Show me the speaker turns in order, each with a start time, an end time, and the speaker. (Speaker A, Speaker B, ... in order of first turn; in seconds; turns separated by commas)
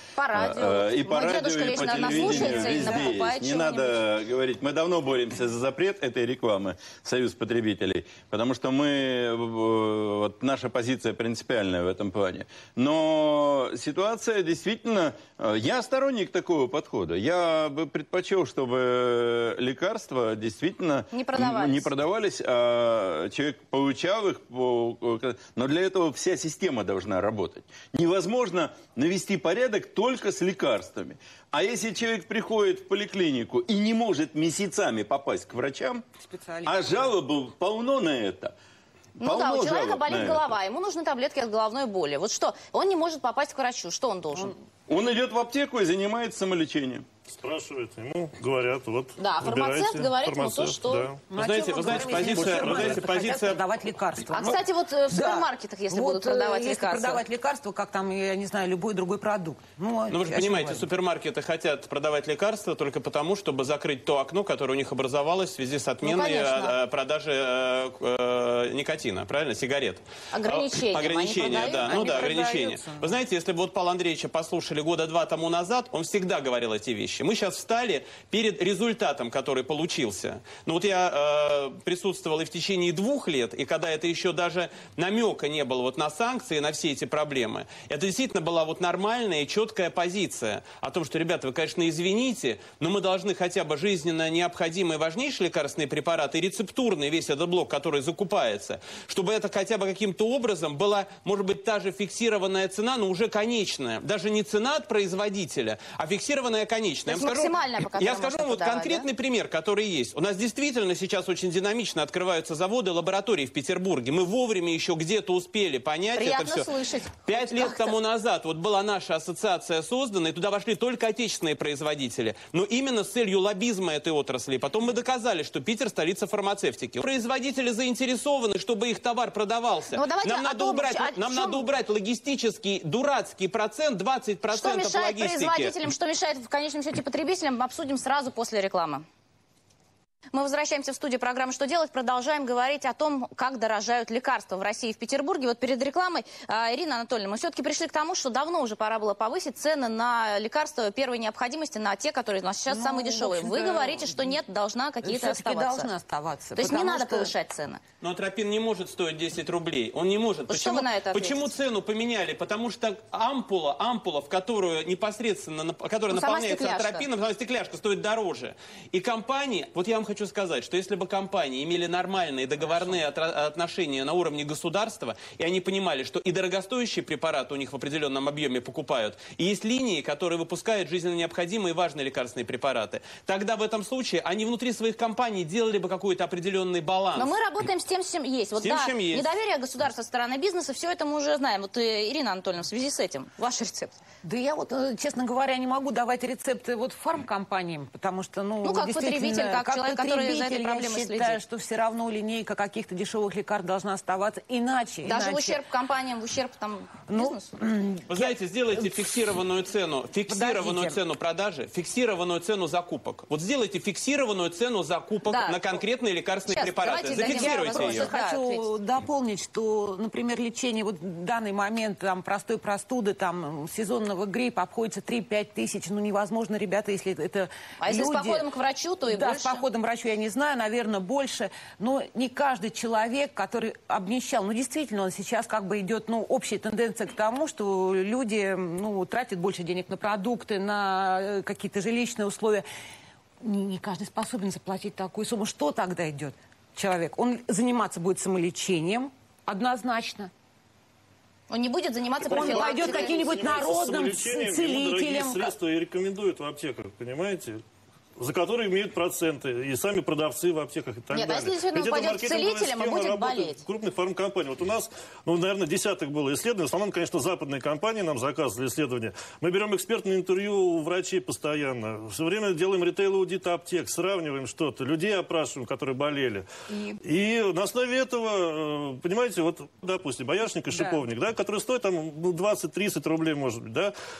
Speaker A: 0.1-4.0, Speaker B: 0.3-36.0, Speaker C: 1.6-3.1, Speaker A: 21.1-21.9, Speaker C: 36.2-37.1, Speaker B: 36.6-38.5, Speaker B: 39.2-40.5, Speaker A: 39.2-44.5, Speaker B: 44.9-47.1, Speaker D: 47.3-51.3, Speaker A: 49.2-51.1, Speaker C: 51.3-60.8, Speaker E: 51.3-53.6, Speaker D: 51.9-53.1, Speaker A: 54.3-57.2, Speaker E: 60.1-116.7, Speaker A: 66.0-66.7, Speaker A: 70.3-72.3, Speaker C: 71.6-73.2, Speaker A: 107.1-109.1, Speaker A: 116.2-117.9, Speaker E: 117.2-135.7, Speaker A: 129.9-131.6, Speaker A: 134.5-139.0, Speaker A: 140.3-155.9, Speaker C: 152.7-154.4, Speaker C: 155.0-157.3, Speaker A: 156.6-157.8, Speaker E: 158.0-187.3, Speaker A: 160.5-161.4, Speaker A: 166.1-167.1, Speaker A: 187.2-194.0, Speaker E: 188.6-189.2, Speaker C: 194.2-205.6, Speaker A: 198.6-201.4, Speaker A: 205.0-207.5, Speaker C: 207.1-209.1, Speaker E: 208.1-218.1, Speaker C: 210.3-211.0, Speaker A: 215.2-215.8, Speaker A: 216.5-218.7, Speaker C: 216.9-228.4, Speaker A: 227.8-229.6, Speaker C: 229.1-242.6, Speaker C: 243.4-250.3, Speaker A: 251.5-253.1, Speaker C: 252.2-255.5, Speaker D: 252.3-257.6, Speaker D: 258.2-276.4, Speaker A: 261.1-263.6, Speaker C: 276.7-277.0, Speaker D: 277.0-283.9, Speaker C: 280.7-281.0